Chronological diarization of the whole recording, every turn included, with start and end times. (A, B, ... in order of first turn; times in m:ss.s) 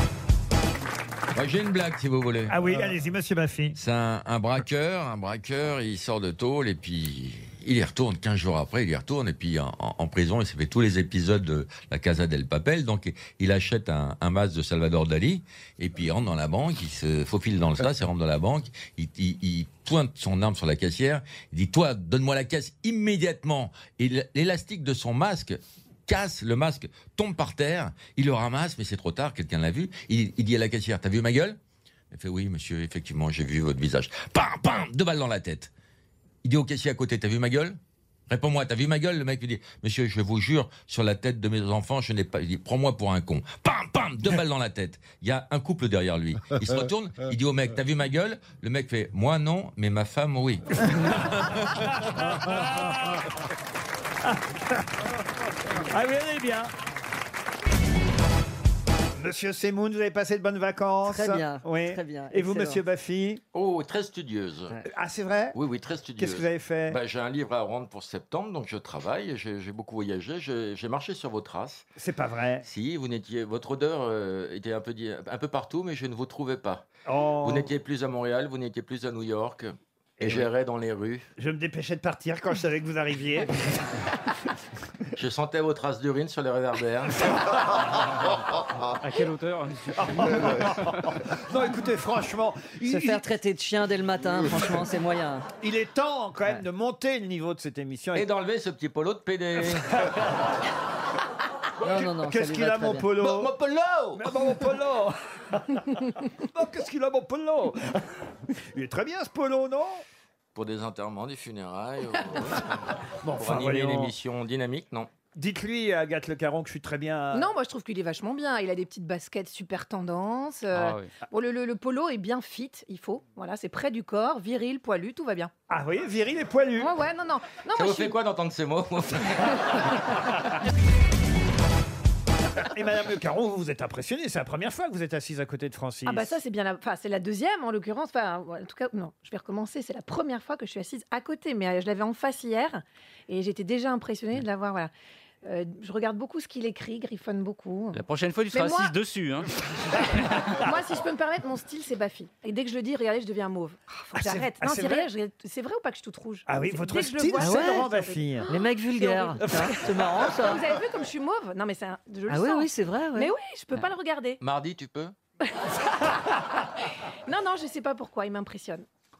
0:01.4-0:02.6 A
0:02.5-0:03.8 B
0:03.8-0:31.6 A
0:32.1-0:35.7 A
0:36.4-0:50.7 A
0:51.8-0:53.2 B
0:55.7-0:56.7 B
0:59.2-1:03.4 B
1:01.1-1:02.8 C
1:03.5-1:04.8 A
1:04.8-1:05.6 B
1:05.5-1:11.9 A
1:06.2-1:07.0 B
1:12.0-1:12.7 B
1:12.6-1:16.8 A
1:17.1-1:17.7 B
1:17.4-1:21.3 A
1:20.2-1:20.5 B
1:21.4-1:23.7 B
1:25.2-1:27.5 A
1:29.0-1:30.4 D
1:30.2-1:33.2 B
1:32.9-1:35.4 C
1:35.6-1:38.3 B
1:38.2-1:39.9 A
1:41.8-1:43.1 C
1:41.8-1:43.5 B
1:43.2-1:44.3 A
1:44.2-1:50.0 B
1:50.5-1:55.1 A
1:53.2-1:54.2 B
1:55.4-1:57.5 B
1:57.3-2:05.5 E
2:00.8-2:01.1 D
2:05.7-2:06.9 B
2:06.8-2:08.2 E
2:07.7-2:10.4 A
2:12.6-2:16.4 B
2:16.1-2:24.9 E
2:25.4-2:29.0 E
2:27.9-2:29.5 D
2:29.9-2:44.4 E
2:34.2-2:35.1 B
2:36.5-2:38.5 B
2:37.4-2:37.8 C
2:38.5-2:40.6 C
2:42.3-2:43.3 C
2:44.4-2:45.2 A
2:45.4-2:48.9 E